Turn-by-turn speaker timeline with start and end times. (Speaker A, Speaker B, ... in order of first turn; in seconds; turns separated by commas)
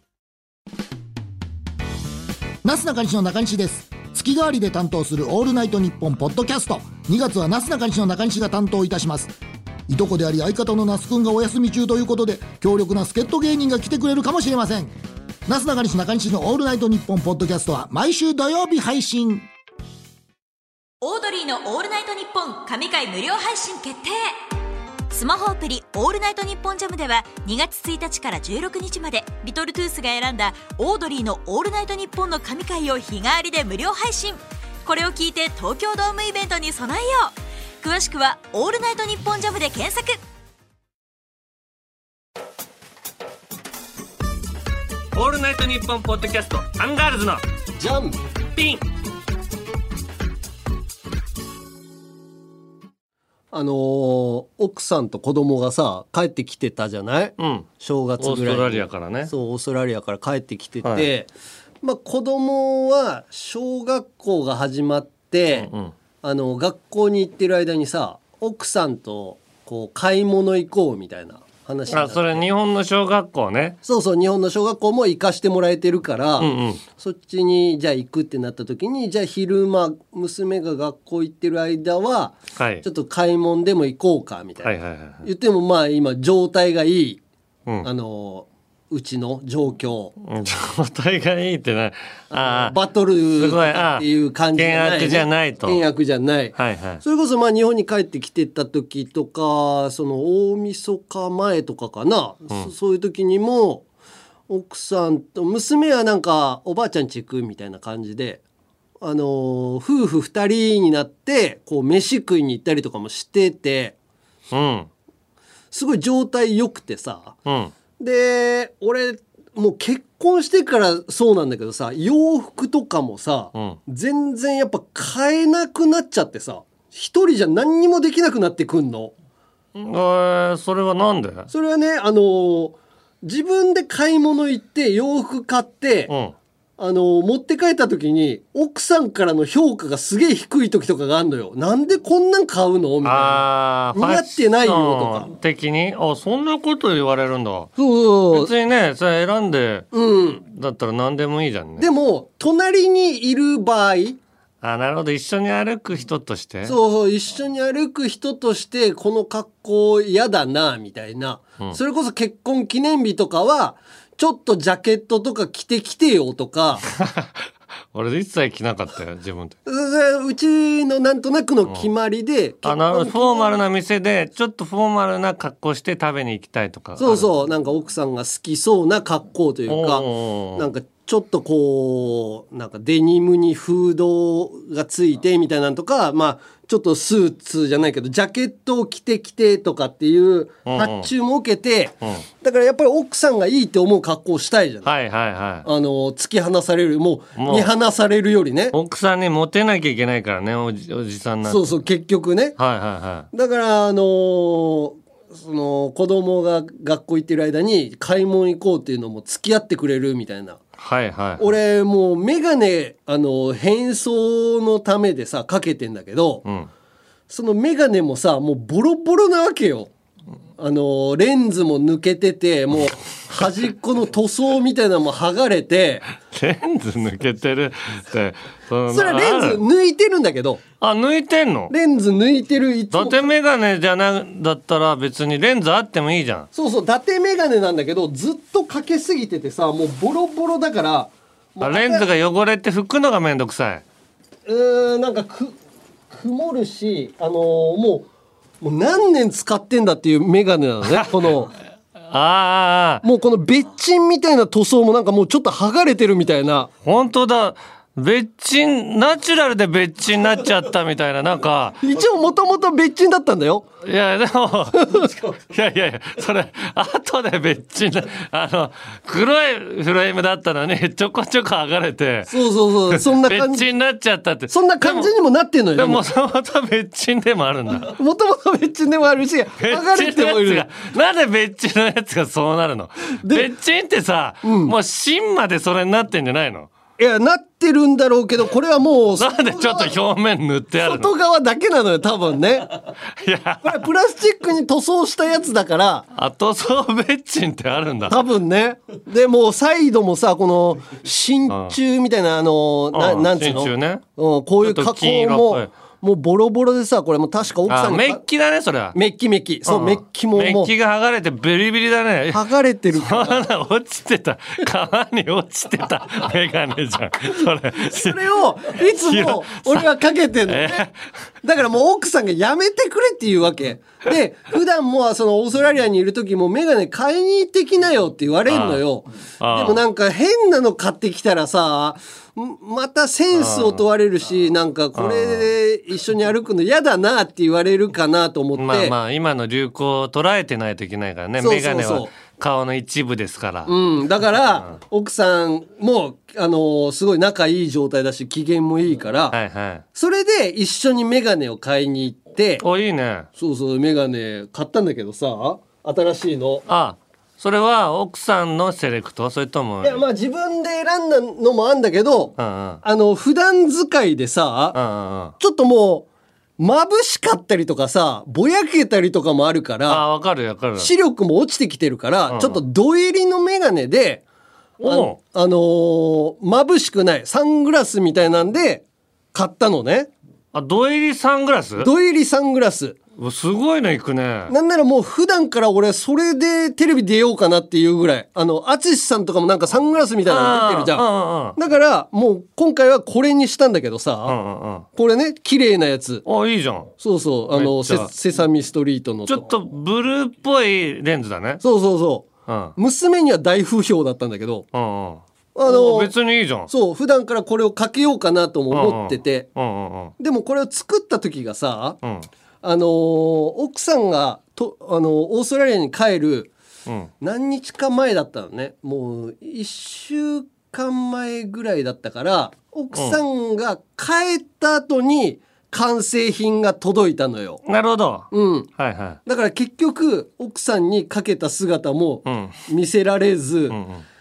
Speaker A: 2.6-9.3, Speaker A: 9.9-14.9, Speaker A: 15.5-19.4, Speaker B: 21.0-24.3, Speaker B: 25.1-40.2, Speaker C: 45.1-47.4, Speaker D: 47.8-48.2, Speaker C: 48.5-48.8, Speaker D: 53.5-61.3, Speaker C: 57.4-57.7, Speaker C: 58.2-59.3, Speaker D: 61.8-65.7, Speaker C: 65.5-65.9, Speaker D: 66.2-72.5, Speaker C: 71.9-73.8, Speaker D: 73.8-87.2, Speaker C: 76.4-76.8, Speaker C: 82.5-82.8, Speaker C: 84.6-85.2, Speaker D: 87.8-90.1, Speaker C: 90.2-92.7, Speaker D: 92.3-103.8, Speaker C: 93.3-95.8, Speaker C: 96.5-97.0, Speaker D: 104.5-108.4, Speaker D: 109.0-114.0, Speaker C: 114.5-114.9, Speaker D: 115.7-117.4, Speaker C: 117.5-117.7, Speaker D: 118.0-129.1, Speaker C: 129.7-131.5, Speaker D: 131.5-136.1, Speaker C: 136.1-136.3, Speaker D: 136.8-145.3, Speaker C: 143.0-147.7, Speaker D: 147.8-148.5, Speaker C: 148.3-149.9, Speaker D: 149.9-150.4, Speaker C: 150.4-151.9, Speaker D: 151.8-154.2, Speaker C: 154.6-156.8, Speaker D: 156.6-166.8, Speaker C: 166.9-167.4, Speaker C: 167.9-169.6, Speaker D: 169.7-173.6, Speaker C: 172.6-177.3, Speaker D: 177.0-194.9, Speaker C: 179.7-180.6, Speaker C: 190.7-191.1, Speaker C: 194.8-195.7, Speaker D: 195.6-198.7, Speaker C: 197.4-197.7, Speaker C: 198.7-201.7, Speaker D: 201.4-202.6, Speaker C: 202.6-203.3, Speaker D: 203.3-210.6, Speaker C: 210.8-211.6, Speaker D: 211.4-216.4, Speaker D: 217.3-219.9, Speaker D: 220.6-226.1, Speaker C: 226.3-229.6, Speaker D: 228.9-230.6, Speaker C: 230.8-231.7, Speaker D: 231.7-233.3, Speaker C: 232.9-236.5, Speaker D: 236.5-242.1, Speaker C: 241.6-243.8, Speaker D: 244.4-245.5, Speaker D: 246.1-248.1, Speaker D: 248.6-251.5, Speaker C: 252.1-253.0, Speaker D: 253.0-256.7, Speaker C: 256.8-261.8, Speaker D: 261.8-263.7, Speaker C: 263.8-272.3, Speaker D: 264.8-265.1, Speaker D: 272.3-273.6, Speaker C: 272.9-275.1, Speaker D: 274.5-276.1, Speaker C: 275.7-277.9, Speaker D: 277.8-280.6, Speaker C: 279.6-286.7, Speaker D: 283.2-283.5, Speaker D: 284.4-284.7, Speaker D: 287.0-290.0, Speaker C: 289.2-291.1, Speaker D: 290.8-292.7, Speaker C: 293.2-293.9, Speaker D: 293.6-296.0, Speaker C: 296.1-298.2, Speaker D: 298.1-308.2, Speaker C: 301.5-301.8, Speaker C: 302.9-304.0, Speaker C: 304.6-305.7, Speaker C: 307.7-308.9, Speaker D: 308.9-310.7, Speaker C: 309.6-312.4, Speaker D: 312.3-313.4, Speaker C: 312.9-319.9, Speaker D: 317.8-320.9, Speaker C: 320.5-320.9, Speaker D: 321.4-338.9, Speaker C: 328.5-328.8, Speaker C: 329.4-329.8, Speaker C: 333.3-333.8, Speaker C: 334.9-335.5, Speaker C: 338.6-343.7, Speaker D: 341.4-342.1, Speaker D: 343.6-349.3, Speaker C: 349.3-349.8, Speaker D: 349.9-352.6, Speaker C: 352.6-353.3, Speaker D: 353.4-356.6, Speaker C: 356.7-360.0, Speaker D: 359.8-364.8, Speaker C: 362.4-362.8, Speaker C: 364.7-365.3, Speaker D: 365.4-366.1, Speaker D: 366.6-370.0, Speaker C: 369.9-370.9, Speaker D: 370.8-374.2, Speaker C: 372.3-372.6, Speaker C: 374.8-375.2, Speaker D: 374.8-380.1, Speaker C: 380.5-381.9, Speaker D: 381.8-383.0, Speaker C: 383.2-384.5, Speaker D: 384.5-391.0, Speaker C: 390.3-391.6, Speaker D: 391.6-394.4, Speaker C: 394.2-394.9, Speaker D: 394.9-396.2, Speaker C: 396.2-396.9, Speaker D: 397.0-399.5, Speaker C: 397.5-398.1, Speaker C: 399.3-401.6, Speaker D: 401.6-404.7, Speaker C: 402.4-402.8, Speaker C: 404.7-406.7, Speaker D: 405.5-406.1, Speaker D: 406.7-409.5, Speaker C: 408.7-410.1, Speaker D: 410.2-412.0, Speaker D: 412.6-416.5, Speaker D: 417.2-427.6, Speaker C: 422.9-423.2, Speaker C: 427.6-429.2, Speaker D: 428.3-428.7, Speaker D: 429.2-433.8, Speaker C: 432.2-432.6, Speaker C: 433.7-434.0